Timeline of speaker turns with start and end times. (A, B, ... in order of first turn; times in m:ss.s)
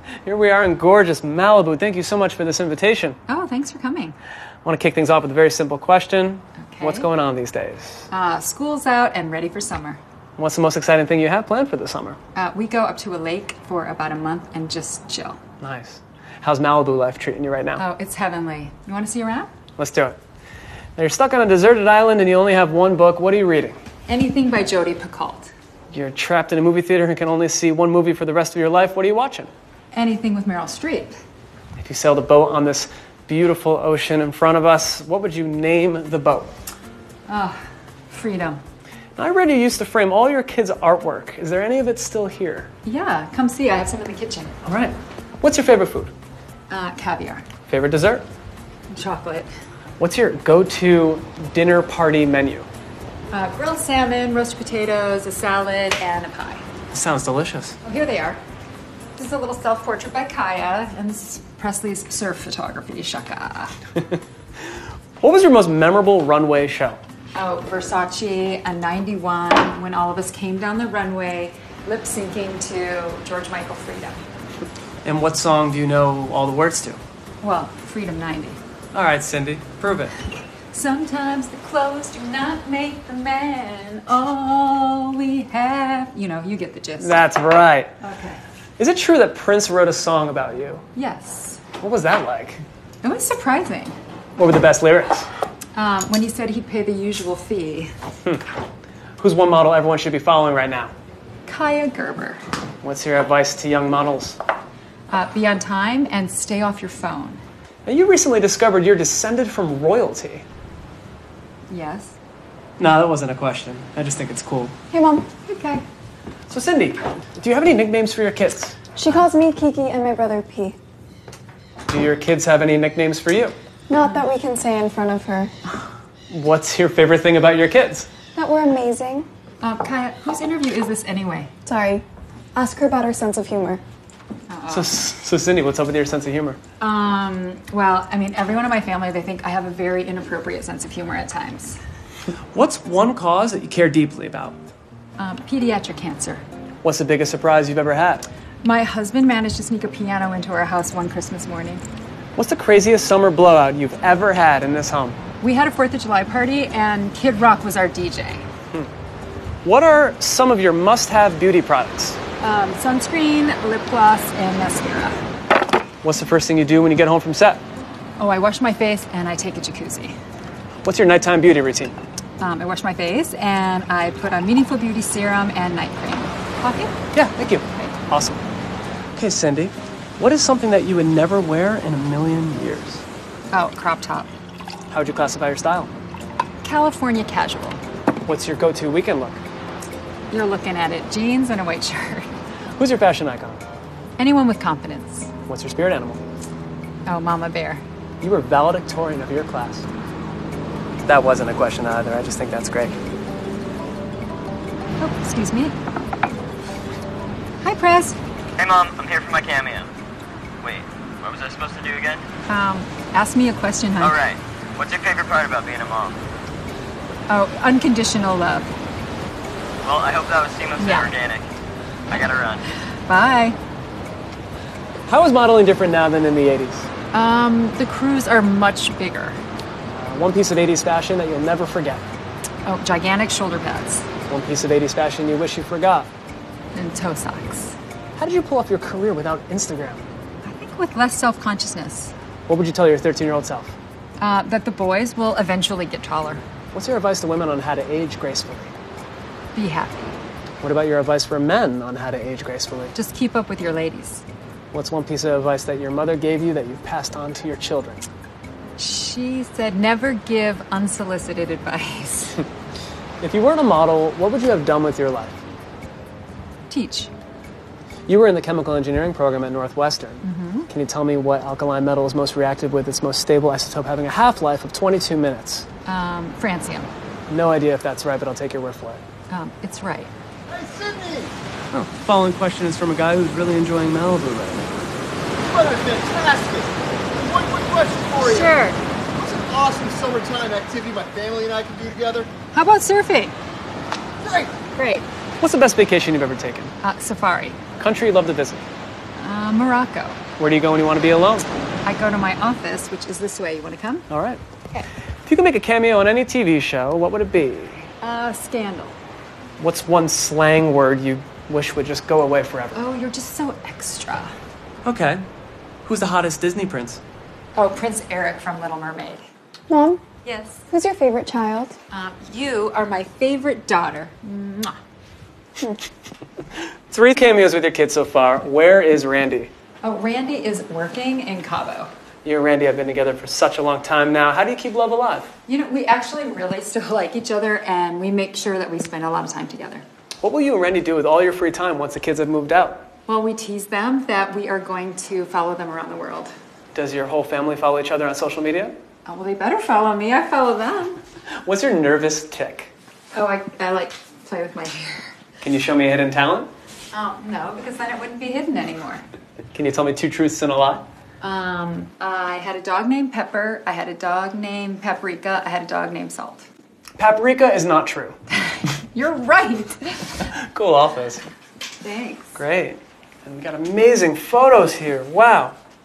0:00.2-0:03.2 A
0:03.3-0:04.1 B
0:04.6-0:08.1 A
0:06.6-0:07.1 B
0:08.1-0:10.0 B
0:10.4-0:12.2 A
0:12.3-0:15.4 B
0:15.6-0:17.8 A
0:17.8-0:19.5 B
0:19.8-0:20.2 A
0:21.0-0:23.8 A
0:24.1-0:25.5 B
0:25.9-0:29.5 A
0:29.9-0:31.1 B
0:31.8-0:36.5 A
0:37.3-0:38.6 B
0:39.2-0:42.7 A
0:42.8-0:44.5 B
0:44.6-0:46.1 A
0:46.7-0:47.4 B
0:47.7-0:48.2 A
0:48.9-0:49.5 B
0:50.0-0:52.7 A
0:53.3-0:56.6 B
0:56.9-0:57.8 A
0:57.8-0:58.4 B
0:59.2-1:03.7 B
1:05.2-1:07.0 A
1:07.3-1:14.2 B
1:15.0-1:17.0 A
1:17.4-1:18.6 B
1:18.9-1:20.2 A
1:20.7-1:27.2 B
1:27.0-1:27.9 A
1:28.0-1:28.4 B
1:28.8-1:30.8 A
1:30.9-1:31.6 B
1:31.8-1:32.6 A
1:33.0-1:34.0 B
1:34.4-1:35.3 A
1:35.7-1:37.9 B
1:39.2-1:40.9 A
1:41.4-1:42.4 B
1:42.8-1:44.4 A
1:45.1-1:47.4 B
1:47.8-1:50.4 A
1:51.7-1:52.2 B
1:52.8-1:54.7 A
1:54.9-1:55.3 C
1:55.4-1:55.8 B
1:56.5-1:58.8 A
1:59.0-2:00.8 C
2:01.9-2:03.6 A
2:03.9-2:05.5 C
2:06.3-2:08.1 A
2:08.4-2:09.3 C
2:09.6-2:11.5 B
2:11.6-2:12.0 C
2:12.5-2:13.8 C
2:14.5-2:14.9 B
2:14.7-2:16.6 A
2:16.8-2:21.8 B
2:22.5-2:24.6 A
2:25.2-2:26.4 B
2:26.8-2:28.3 A
2:28.6-2:31.8 B
2:32.4-2:35.2 A
2:35.4-2:38.4 B
2:39.6-2:42.2 A
2:42.4-2:45.2 B
2:46.0-2:47.6 A
2:48.2-2:50.2 B
2:50.8-2:52.0 A
2:52.4-2:56.9 B
2:57.1-2:58.4 A
2:59.2-3:03.0 A
3:03.5-3:04.3 B
3:04.9-3:05.9 A
3:06.6-3:07.8 B
3:08.3-3:09.4 A
3:10.3-3:12.3 B
3:12.8-3:13.6 A
3:14.2-3:15.3 B
3:15.5-3:16.2 A
3:17.0-3:17.8 B
3:18.2-3:19.8 A
3:21.0-3:23.0 A
3:25.0-3:25.8 B
3:27.6-3:28.2 B
3:28.6-3:29.9 D
3:30.6-3:32.2 D
3:32.5-3:34.2 B
3:34.0-3:36.2 D
3:37.3-3:38.7 B
3:39.8-3:41.4 D
3:40.8-3:41.1 B
3:42.1-3:42.6 D
3:43.1-3:43.6 B
3:45.1-3:46.9 A
3:47.1-3:49.4 B
3:49.9-3:52.0 A
3:52.6-3:54.0 B
3:54.3-3:56.1 A
3:56.7-3:57.8 B
3:58.2-4:00.0 A
4:00.4-4:02.1 B
4:02.5-4:03.8 A
4:04.2-4:06.4 B
4:06.7-4:08.7 A
4:09.5-4:10.2 B
4:10.6-4:12.9 A
4:12.9-4:14.2 B
4:14.7-4:18.0 A
4:18.8-4:22.4 B
4:23.2-4:25.4 A
4:26.7-4:27.1 B
4:28.1-4:35.7 A
4:30.2-4:30.7 B
4:35.8-4:36.9 B
4:37.3-4:39.0 A
4:39.3-4:40.1 B
4:40.5-4:41.3 E
4:41.7-4:44.8 A
4:45.4-4:48.5 E
4:48.2-4:48.8 B
4:49.2-4:52.3 E
4:52.5-4:53.4 B
4:54.2-4:54.5 E
4:54.7-4:55.0 B
4:55.4-4:56.7 A
4:56.8-4:57.6 B
4:57.8-4:58.6 A
4:59.2-5:00.2 B
5:00.4-5:01.5 A
5:01.8-5:04.0 B
5:04.1-5:04.4 A
5:05.2-5:07.9 A
5:08.0-5:09.0 B
5:09.6-5:12.8 A
5:12.7-5:14.3 B
5:14.8-5:15.2 A
5:15.8-5:17.0 A
5:17.5-5:19.2 B
5:19.7-5:20.0 C
5:20.2-5:20.6 B
5:20.7-5:21.8 C
5:21.9-5:24.8 B
5:26.9-5:29.5 A
5:29.8-5:31.9 B
5:32.2-5:35.3 A
5:35.5-5:39.8 B
5:40.2-5:42.9 A
5:43.1-5:46.3 B
5:46.7-5:48.7 A
5:49.0-5:51.0 B
5:51.4-5:52.7 A
5:53.1-5:55.1 B
5:55.4-5:56.5 A
5:56.9-5:59.0 B
5:59.5-6:00.9 A
6:01.2-6:06.5 B
6:07.0-6:08.1 A
6:08.4-6:10.3 B
6:10.4-6:11.2 A
6:11.8-6:12.4 B
6:12.4-6:15.6 A